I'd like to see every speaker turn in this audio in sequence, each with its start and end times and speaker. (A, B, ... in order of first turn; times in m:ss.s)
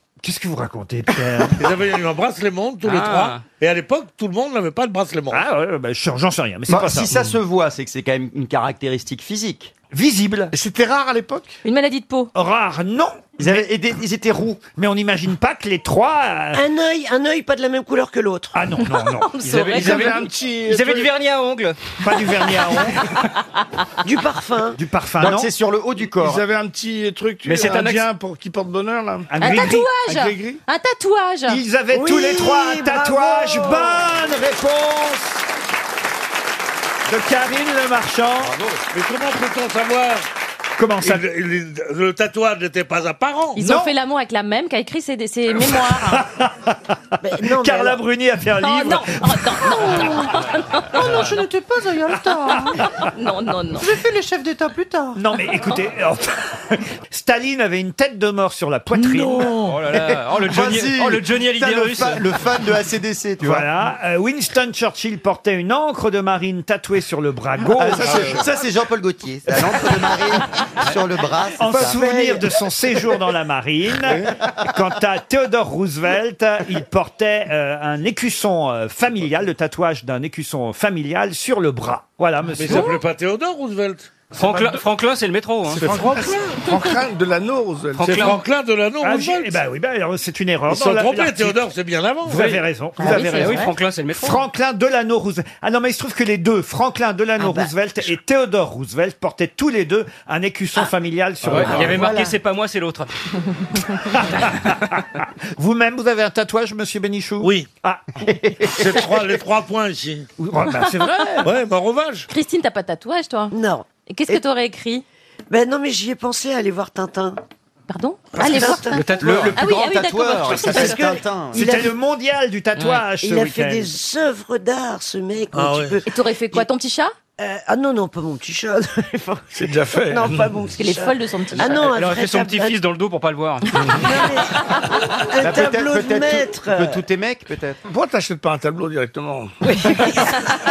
0:00.2-0:01.6 A
0:01.6-0:05.4 B
0:02.8-0:03.4 C
0:05.3-0:07.1 A
0:06.7-0:09.7 D
0:09.9-0:10.5 A
0:10.5-0:11.6 E
0:11.6-0:12.3 F
0:12.3-0:13.7 A
0:13.4-0:14.6 D
0:14.8-0:16.6 A
0:16.5-0:18.5 G
0:18.5-0:19.3 A
0:18.9-0:20.2 F
0:19.4-0:21.8 C
0:19.6-0:21.1 E
0:22.0-0:23.0 A
0:24.0-0:24.8 G
0:24.8-0:25.5 A
0:25.2-0:26.4 D
0:26.0-0:30.6 E
0:27.4-0:28.0 C
0:29.3-0:29.9 A
0:29.4-0:31.6 F
0:31.5-0:35.4 A
0:32.0-0:33.7 G
0:37.1-0:38.6 A
0:38.8-0:40.2 B
0:40.8-0:41.2 A
0:41.0-0:43.6 B
0:43.6-0:46.2 F
0:43.6-0:43.9 A
0:46.1-0:46.7 A
0:47.2-0:48.0 G
0:47.5-0:49.2 A
0:48.6-0:51.4 F
0:49.7-0:50.2 H
0:51.0-0:52.7 H
0:53.0-0:53.9 F
0:53.9-0:55.1 H
0:55.1-0:59.5 A
0:59.6-1:02.3 C
1:00.5-1:01.0 D
1:01.6-1:03.7 D
1:03.4-1:08.4 A
1:07.8-1:12.0 D
1:11.6-1:23.0 A
1:12.0-1:12.4 G
1:22.6-1:24.1 B
1:24.3-1:26.0 C
1:24.3-1:24.8 E
1:25.6-1:28.4 E
1:27.9-1:28.4 C
1:28.1-1:29.5 B
1:29.0-1:31.7 A
1:30.7-1:32.4 B
1:32.2-1:42.1 A
1:32.3-1:34.4 C
1:33.0-1:33.7 G
1:37.4-1:37.7 G
1:41.5-1:43.1 C
1:41.9-1:42.3 G
1:45.6-1:48.0 A
1:47.4-1:47.7 B
1:48.6-1:50.3 B
1:50.4-1:51.5 A
1:51.4-1:52.3 B
1:52.3-1:53.5 F
1:53.5-1:54.4 G
1:54.0-1:55.0 F
1:55.5-1:57.4 G
1:57.9-1:59.0 F
1:58.3-1:59.2 G
1:58.9-1:59.5 C
1:59.1-2:01.7 D
1:59.5-2:01.1 F
2:00.5-2:02.0 G
2:01.5-2:03.9 A
2:02.8-2:03.0 C
2:03.2-2:06.7 G
2:05.5-2:05.9 B
2:06.0-2:07.1 F
2:07.4-2:12.8 G
2:09.5-2:10.5 E
2:10.8-2:11.8 F
2:11.8-2:13.9 C
2:13.7-2:17.0 G
2:15.4-2:17.8 D
2:17.8-2:19.7 E
2:20.2-2:20.4 F